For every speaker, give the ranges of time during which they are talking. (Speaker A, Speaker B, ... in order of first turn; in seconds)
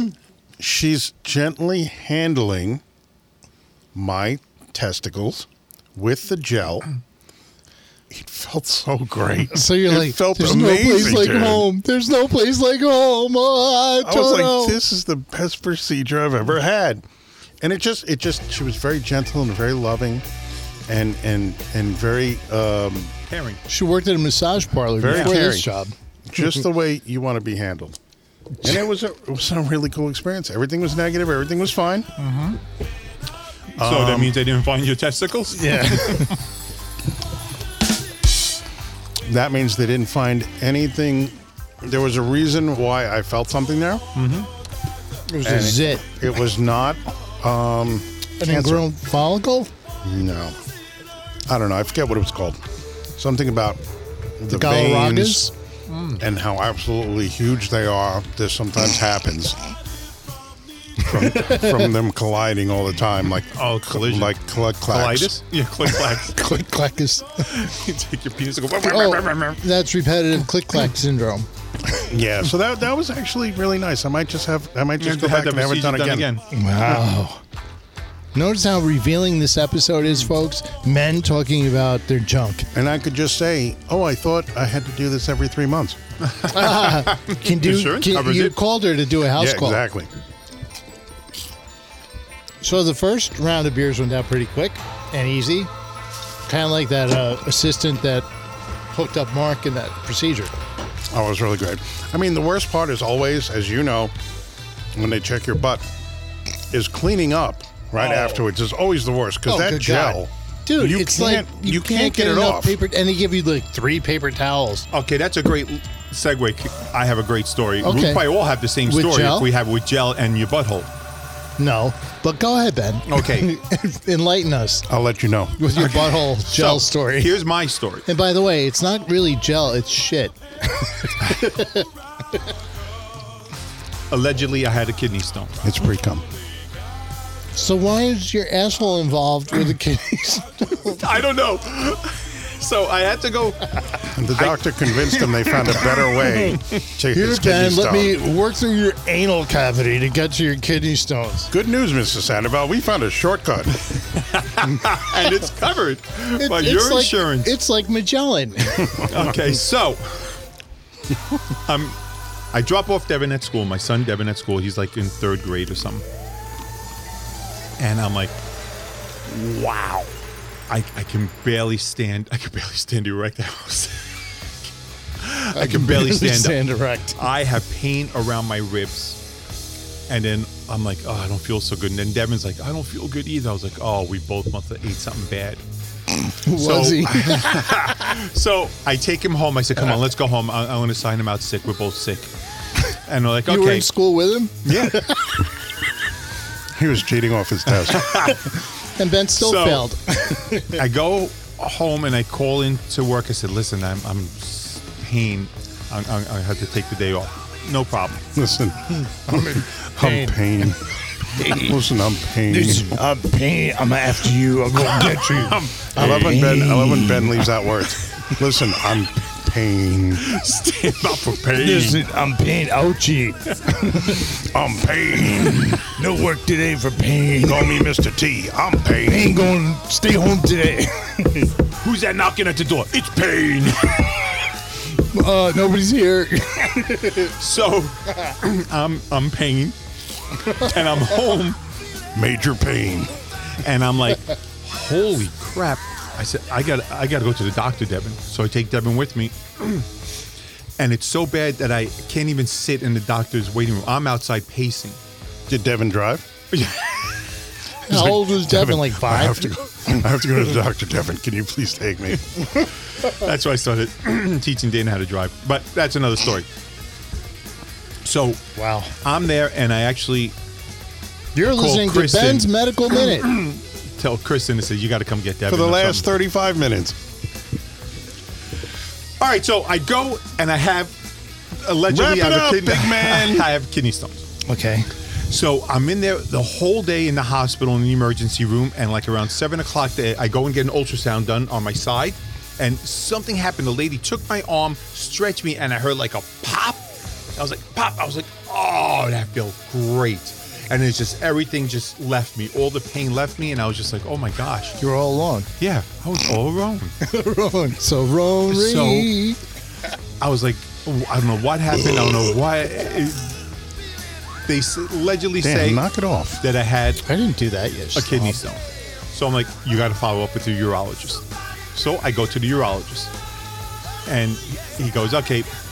Speaker A: 0.6-2.8, 3.9-6.9, 8.1-11.7, 14.0-17.0, 17.6-20.2, 20.9-23.1, 25.0-25.7, 26.3-28.0, 28.6-32.1, 33.8-34.3, 39.2-44.0, 45.4-48.8, 50.0-50.6, 51.5-52.6, 53.2-53.8, 54.4-55.5, 56.2-59.6, 61.0-65.3, 72.0-76.3, 82.7-86.0, 89.4-90.1, 101.1-104.1, 105.0-105.9, 106.7-112.8, 124.9-125.6, 135.6-136.2, 144.0-148.2, 151.5-153.8, 196.8-198.1, 208.3-210.8, 211.5-212.9, 215.9-220.3, 224.2-225.9, 227.4-229.4, 233.3-234.0, 242.2-243.1, 255.5-256.2, 257.9-262.5, 275.5-277.0, 281.9-283.5, 315.4-316.4
Speaker B: 9.5-14.8, 23.7-25.9, 35.5-36.4, 45.3-46.0, 48.4-49.7, 54.5-55.5, 61.1-61.9, 65.9-67.6, 68.8-71.5, 76.5-77.4, 78.3-82.7, 86.5-89.8, 92.6-95.7, 96.5-98.3, 98.9-100.5, 109.5-114.9, 117.8-118.3, 118.8-119.5, 121.6-124.9, 125.6-127.4, 128.1-132.4, 137.6-141.0, 146.2-151.5, 156.4-159.4, 175.5-177.2, 186.3-188.1, 193.5-195.4, 198.2-200.8, 209.0-210.5, 211.3-211.8, 212.5-217.8, 221.5-224.3, 225.8-227.9, 229.0-231.6, 235.0-237.3, 257.9-259.5, 268.6-268.9, 271.4-273.4, 284.5-284.9, 304.8-305.5, 307.0-309.4, 317.0-318.4
Speaker C: 23.3-23.6, 32.2-32.6, 33.8-36.3, 44.1-44.5, 55.9-56.2, 63.5-64.3, 64.9-66.4, 67.4-69.6, 75.0-76.5, 86.3-88.6, 108.0-108.4, 114.9-120.9, 123.1-123.5, 125.7-128.1, 134.1-135.6, 140.8-146.1, 154.1-157.5, 159.0-160.2, 161.7-162.0, 162.5-166.1, 167.8-168.4, 169.3-170.1, 170.7-174.2, 175.2-176.6, 177.1-179.2, 180.1-185.6, 186.5-192.3, 192.9-193.9, 194.7-195.1, 197.8-198.4, 199.4-199.9, 200.6-208.2, 214.9-216.3, 220.2-222.0, 231.8-234.1, 237.2-239.8, 240.4-241.6, 243.5-249.9, 250.8-255.0, 256.5-257.2, 262.9-266.5, 268.0-268.4, 269.0-270.4, 271.4-276.1, 279.2-280.9, 281.6-284.2, 285.3-296.8, 297.4-304.8, 305.6-306.9, 308.5-309.1, 310.2-313.4, 314.5-315.8, 316.4-317.0, 317.9-323.1, 324.1-325.5